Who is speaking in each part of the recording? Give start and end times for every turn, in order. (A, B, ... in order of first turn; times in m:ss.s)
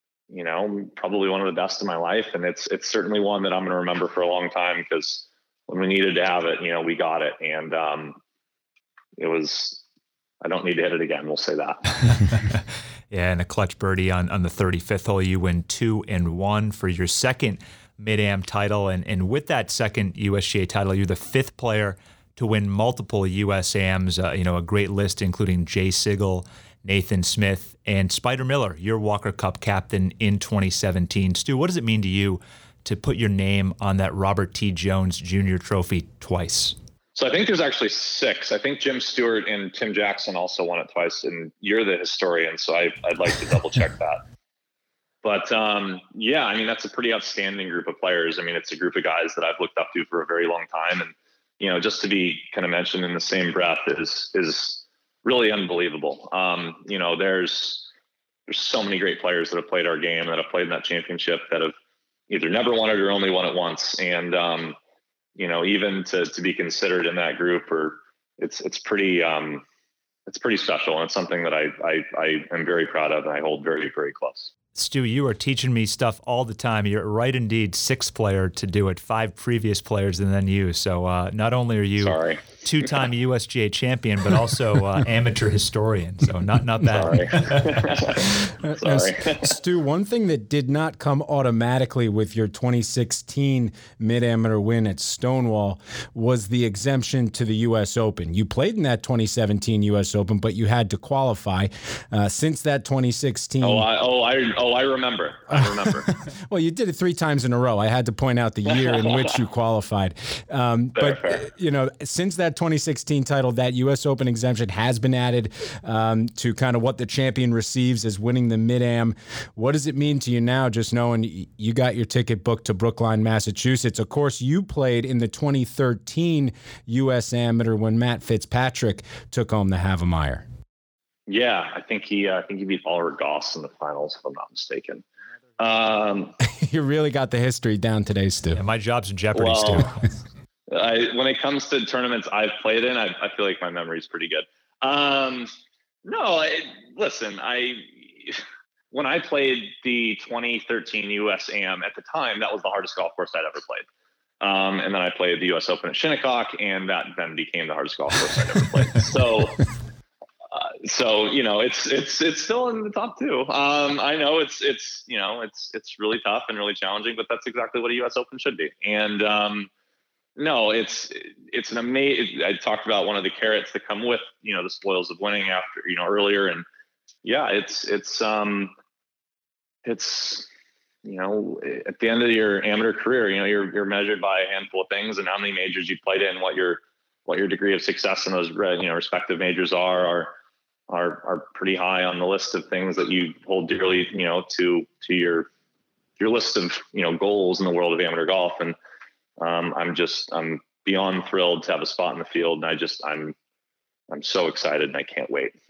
0:00.3-0:08.2 A
0:09.2-0:09.8 A
0:10.4-0:11.9 A
0:12.3-0:12.6 B
0:13.1-0:36.8 B
0:37.1-0:44.2 A
0:45.2-0:57.9 A
0:58.5-1:01.7 A
1:02.3-1:04.8 A
1:05.4-1:09.6 A
1:10.3-1:14.5 A
1:14.7-1:27.9 B
1:22.0-1:22.9 A
1:26.9-1:29.6 A
1:28.2-1:43.8 C
1:43.6-1:46.1 A
1:46.1-2:10.4 C
1:50.9-1:51.4 A
2:11.3-2:15.0 A
2:15.6-2:16.3 A
2:16.4-2:18.6 C
2:18.5-2:20.0 B
2:19.3-2:19.9 A
2:20.7-2:25.5 A
2:26.0-2:33.8 A
2:34.4-2:39.6 A
2:40.5-2:49.7 A
2:50.4-2:56.6 A
2:57.2-2:58.7 A
2:59.8-3:00.5 A
3:01.0-3:10.3 A
3:10.9-3:15.5 A
3:16.2-3:18.7 A
3:19.4-3:23.3 A
3:24.1-3:25.5 A